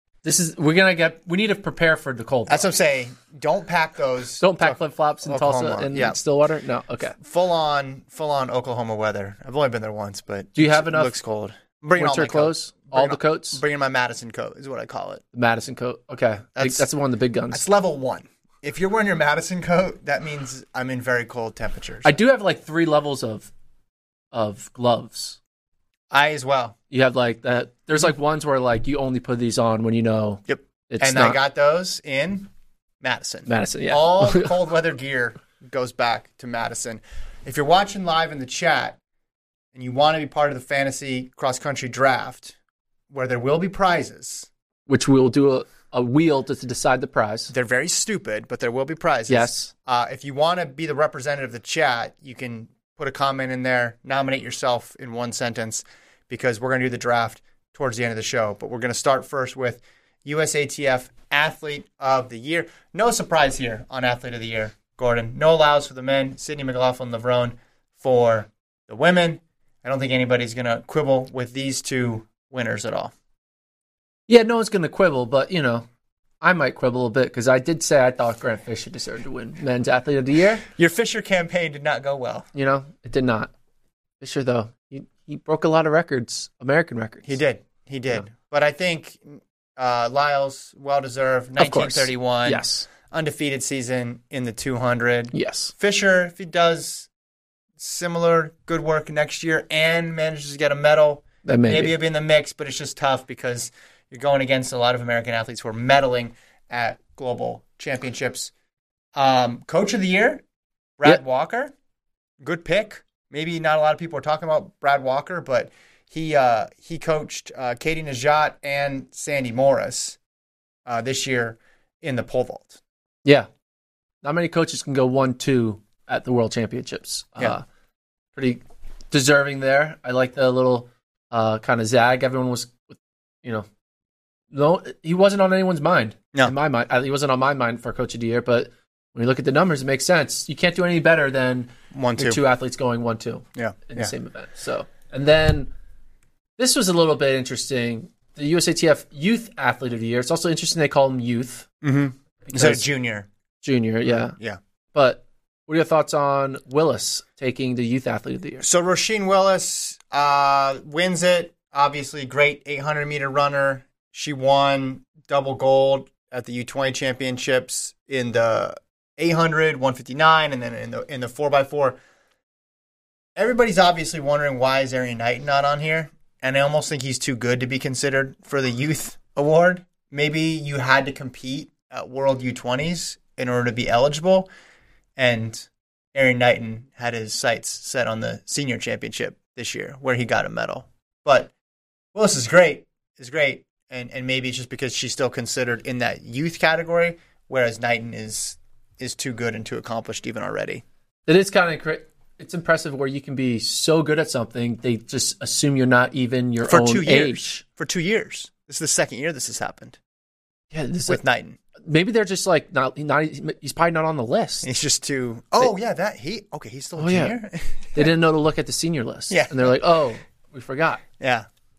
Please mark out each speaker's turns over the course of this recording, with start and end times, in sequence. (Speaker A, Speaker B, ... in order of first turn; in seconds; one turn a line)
Speaker A: 0.2-2.7
Speaker B: 2.5-6.2
Speaker A: 4.4-7.2
Speaker B: 7.2-15.2
Speaker A: 10.6-11.2
Speaker A: 12.0-13.6
Speaker A: 15.3-17.6
Speaker B: 16.6-16.9
Speaker B: 17.5-22.2
Speaker A: 22.0-23.5
Speaker A: 24.3-25.4
Speaker B: 26.1-26.8
Speaker A: 26.9-31.4
Speaker B: 30.5-32.5
Speaker B: 33.0-39.0
Speaker A: 33.5-34.5
Speaker B: 39.7-42.5
Speaker B: 43.1-44.5
Speaker A: 44.9-47.5
Speaker B: 47.5-73.1
Speaker A: 49.3-49.7
Speaker A: 74.3-75.9
Speaker A: 76.4-80.7
Speaker B: 80.8-82.5
Speaker A: 82.5-83.5
Speaker A: 84.2-87.4
Speaker B: 87.2-97.1
Speaker A: 91.6-92.9
Speaker A: 95.3-95.7
Speaker B: 97.8-108.5
Speaker A: 101.5-102.0
Speaker B: 109.2-110.4
Speaker B: 111.0-111.7
Speaker B: 112.4-120.2
Speaker B: 120.9-122.8
Speaker A: 124.2-127.6
Speaker A: 128.3-133.7
Speaker A: 134.5-145.7
Speaker B: 141.9-142.4
Speaker B: 143.6-144.1
Speaker A: 146.6-151.7
Speaker B: 151.8-153.3
Speaker A: 152.5-152.9
Speaker A: 153.6-154.4
Speaker B: 154.1-154.6
Speaker A: 154.9-158.7
Speaker B: 158.6-172.0
Speaker B: 173.4-184.5
Speaker B: 185.2-191.5
Speaker B: 192.1-200.8
Speaker A: 201.3-207.6
Speaker B: 206.6-210.0
Speaker A: 210.7-211.2
Speaker B: 211.1-211.6
Speaker A: 211.8-214.7
Speaker B: 214.6-218.1
Speaker A: 217.0-217.4
Speaker A: 217.9-221.0
Speaker B: 219.3-219.8
Speaker B: 221.2-221.5